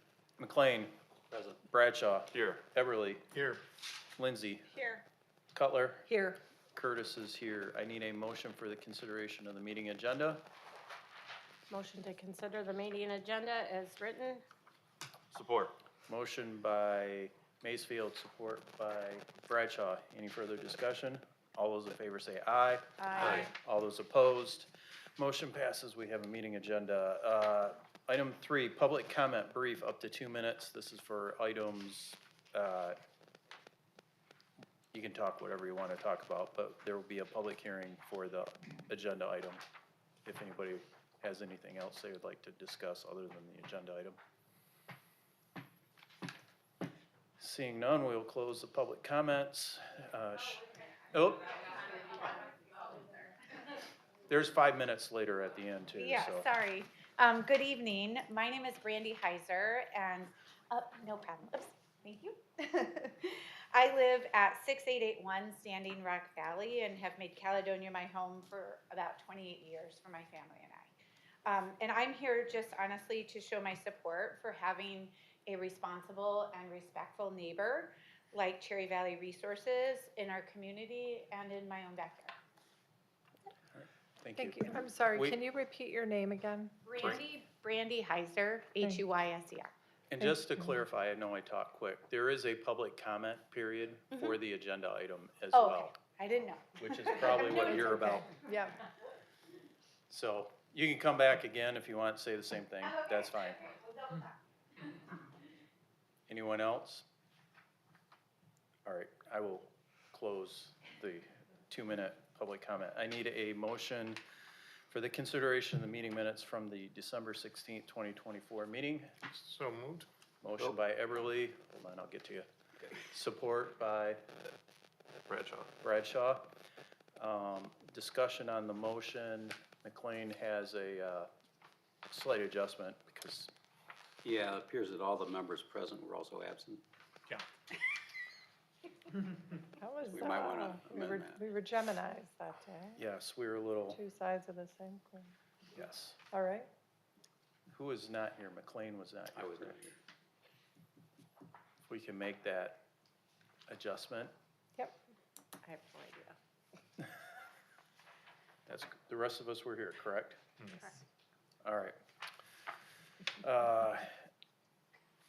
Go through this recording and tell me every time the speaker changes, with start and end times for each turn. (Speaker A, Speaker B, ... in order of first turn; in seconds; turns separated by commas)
Speaker A: 0.4-0.9, Speaker A: 1.6-3.3, Speaker B: 3.3-3.6, Speaker A: 4.2-4.7, Speaker A: 5.5-6.1, Speaker A: 6.7-10.4, Speaker C: 11.7-14.4, Speaker B: 15.3-15.7, Speaker A: 16.1-33.0, Speaker D: 23.0-23.5, Speaker A: 34.9-39.6, Speaker A: 40.2-44.2, Speaker A: 47.4-51.7, Speaker A: 54.3-56.5, Speaker D: 56.0-70.9, Speaker D: 71.4-82.3, Speaker A: 83.7-85.4, Speaker E: 84.3-86.8, Speaker D: 86.8-89.7, Speaker A: 90.1-96.0, Speaker D: 95.5-98.3, Speaker A: 96.8-98.3, Speaker E: 97.5-98.8, Speaker A: 100.1-103.7, Speaker A: 106.3-107.0, Speaker A: 108.8-114.2, Speaker A: 114.9-119.1, Speaker B: 119.3-120.1, Speaker A: 120.4-122.5, Speaker A: 123.0-124.2, Speaker B: 125.3-125.7, Speaker A: 125.8-126.5, Speaker A: 127.2-131.3, Speaker A: 132.1-133.5, Speaker F: 134.2-136.8, Speaker E: 139.8-143.0, Speaker F: 140.1-141.4, Speaker A: 142.9-144.0, Speaker E: 143.9-145.3, Speaker A: 145.7-146.2, Speaker E: 146.3-146.7, Speaker A: 147.7-149.8, Speaker F: 149.3-149.9, Speaker A: 151.9-152.8, Speaker A: 153.7-154.3, Speaker C: 155.6-156.3, Speaker A: 158.7-160.4, Speaker A: 161.6-161.9, Speaker A: 163.4-164.1